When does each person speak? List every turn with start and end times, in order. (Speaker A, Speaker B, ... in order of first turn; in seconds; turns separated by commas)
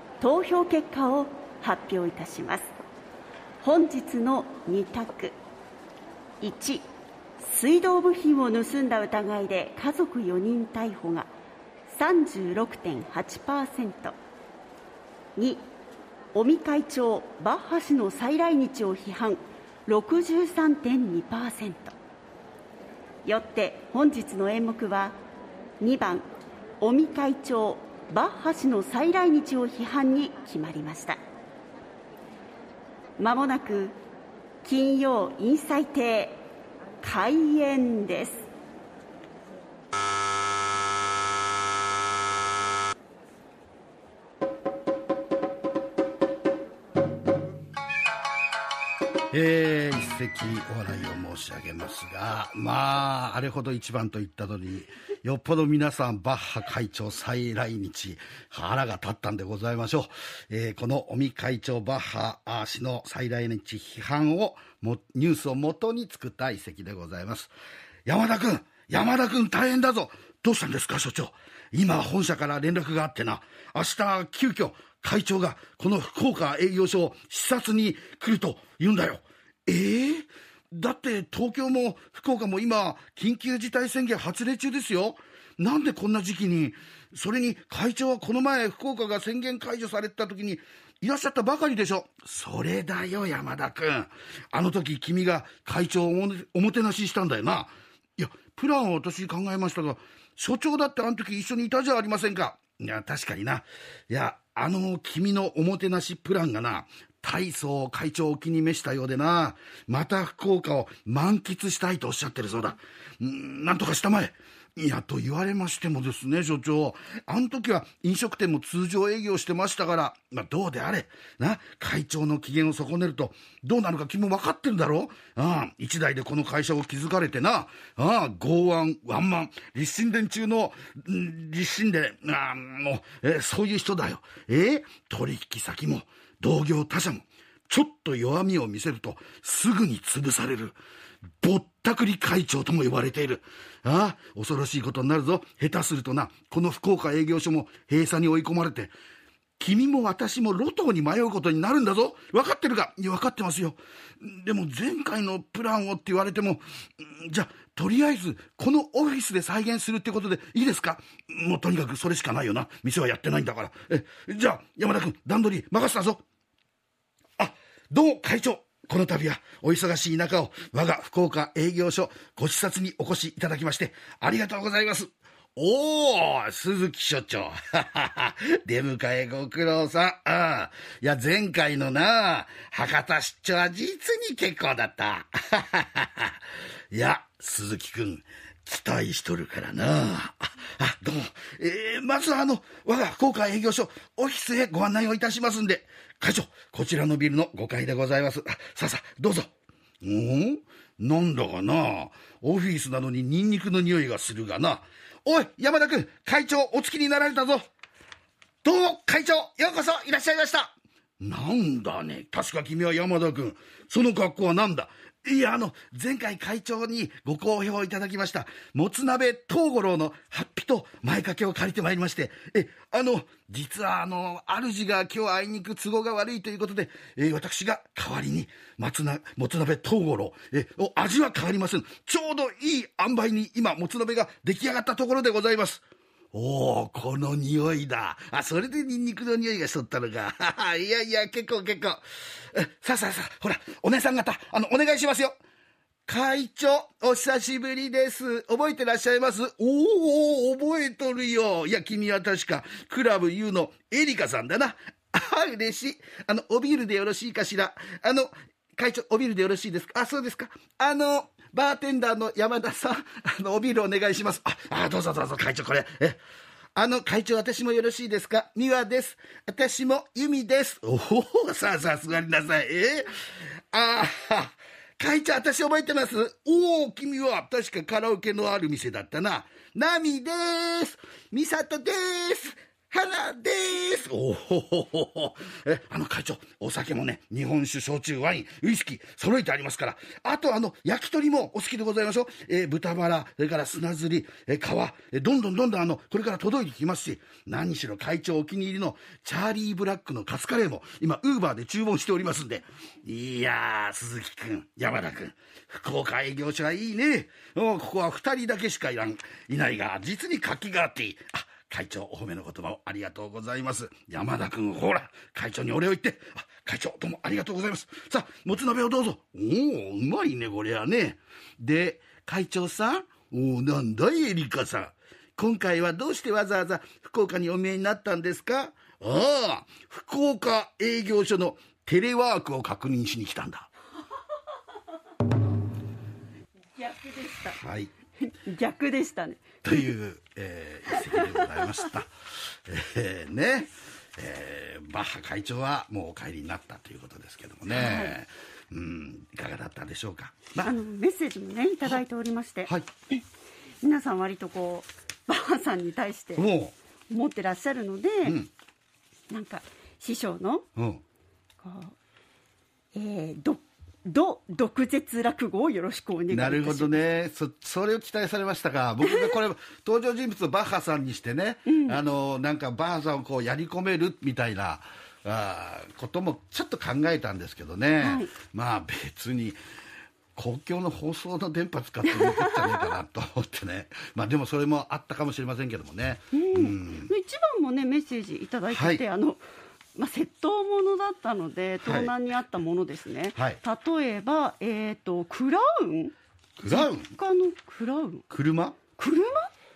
Speaker A: 0.2-2.7, Speaker A: 3.6-5.3, Speaker A: 6.4-6.9, Speaker A: 7.4-11.3, Speaker A: 11.9-14.2, Speaker A: 15.4-15.6, Speaker A: 16.3-21.9, Speaker A: 23.2-25.2, Speaker A: 25.8-26.2, Speaker A: 26.8-31.2, Speaker A: 33.2-34.0, Speaker A: 34.6-36.4, Speaker A: 37.0-38.5, Speaker B: 49.3-67.5, Speaker B: 68.1-140.8, Speaker B: 141.4-148.9, Speaker B: 149.6-166.2, Speaker B: 167.4-186.4, Speaker B: 186.9-199.5, Speaker B: 200.0-207.7, Speaker B: 208.6-235.8, Speaker B: 236.3-245.4, Speaker B: 246.1-266.2, Speaker B: 266.8-273.1, Speaker B: 273.7-333.7, Speaker A: 336.8-337.6, Speaker B: 337.6-337.9, Speaker A: 338.2-339.9, Speaker B: 339.6-342.1, Speaker A: 340.9-341.9, Speaker B: 342.7-350.7, Speaker A: 347.7-348.1, Speaker A: 350.6-352.7, Speaker B: 352.7-353.2, Speaker A: 353.8-356.4, Speaker B: 356.4-356.7, Speaker A: 357.1-358.4, Speaker B: 358.2-358.5, Speaker A: 359.3-360.6, Speaker B: 360.8-361.0, Speaker A: 361.6-361.9, Speaker A: 362.9-367.0, Speaker B: 366.3-379.6, Speaker A: 371.7-372.0, Speaker A: 378.0-378.3, Speaker B: 380.4-387.1, Speaker A: 382.1-382.9, Speaker A: 386.3-389.4, Speaker B: 388.7-389.0, Speaker A: 389.9-396.1, Speaker B: 391.8-392.1, Speaker B: 396.6-397.1, Speaker A: 396.6-398.2, Speaker B: 398.3-398.8, Speaker A: 398.9-399.5